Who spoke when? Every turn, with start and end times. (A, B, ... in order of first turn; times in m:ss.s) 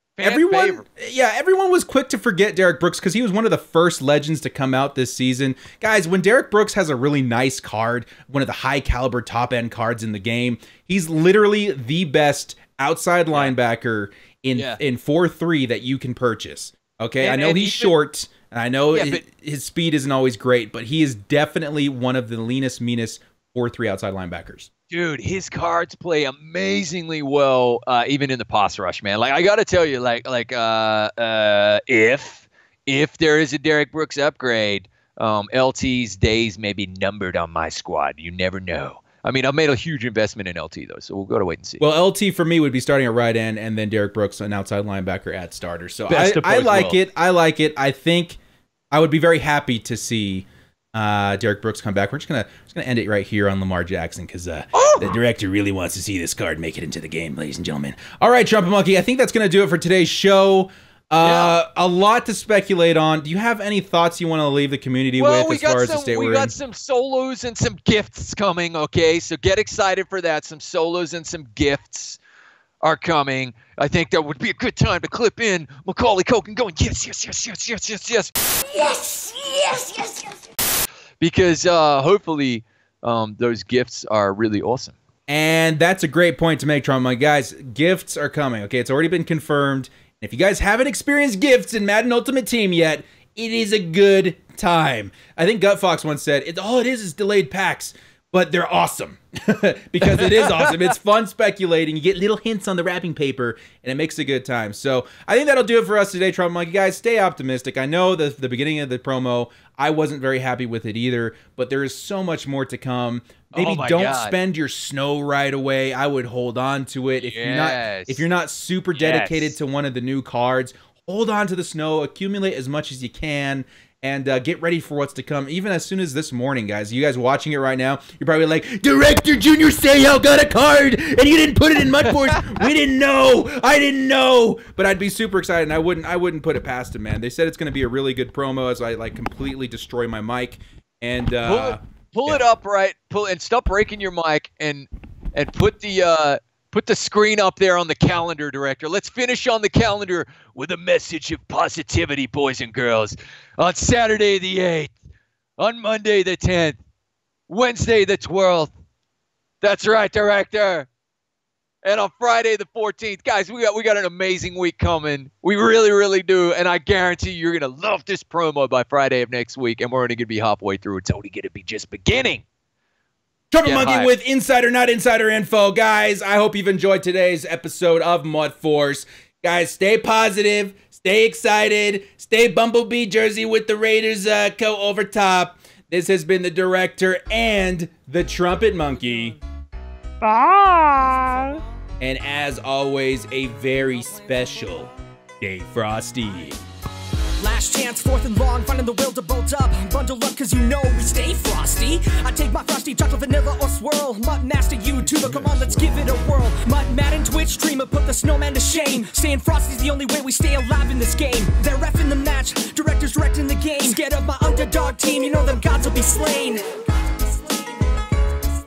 0:00.2-0:00.8 A
0:00.2-0:24.7 B
0:14.5-0:14.8 A
0:17.2-0:17.9 A
0:18.9-0:19.2 A
0:24.9-0:41.8 A
0:41.8-0:48.4 B
0:46.1-0:47.0 A
0:48.9-1:06.5 B
0:54.7-0:55.1 A
1:01.2-1:01.6 A
1:05.2-1:12.2 A
1:12.8-1:18.4 A
1:21.2-1:25.0 A
1:25.3-2:22.4 B
1:40.0-1:40.8 A
1:53.5-1:54.4 A
1:57.2-1:58.2 A
1:58.9-1:59.6 A
2:12.0-2:12.6 A
2:21.4-2:34.9 A
2:35.6-2:36.8 A
2:37.5-2:38.7 A
2:39.6-2:40.9 A
2:41.8-2:52.4 A
2:53.5-3:09.4 B
2:53.6-2:54.1 A
3:10.2-3:11.6 C
3:12.0-3:16.6 B
3:17.4-3:36.6 C
3:25.1-3:26.2 B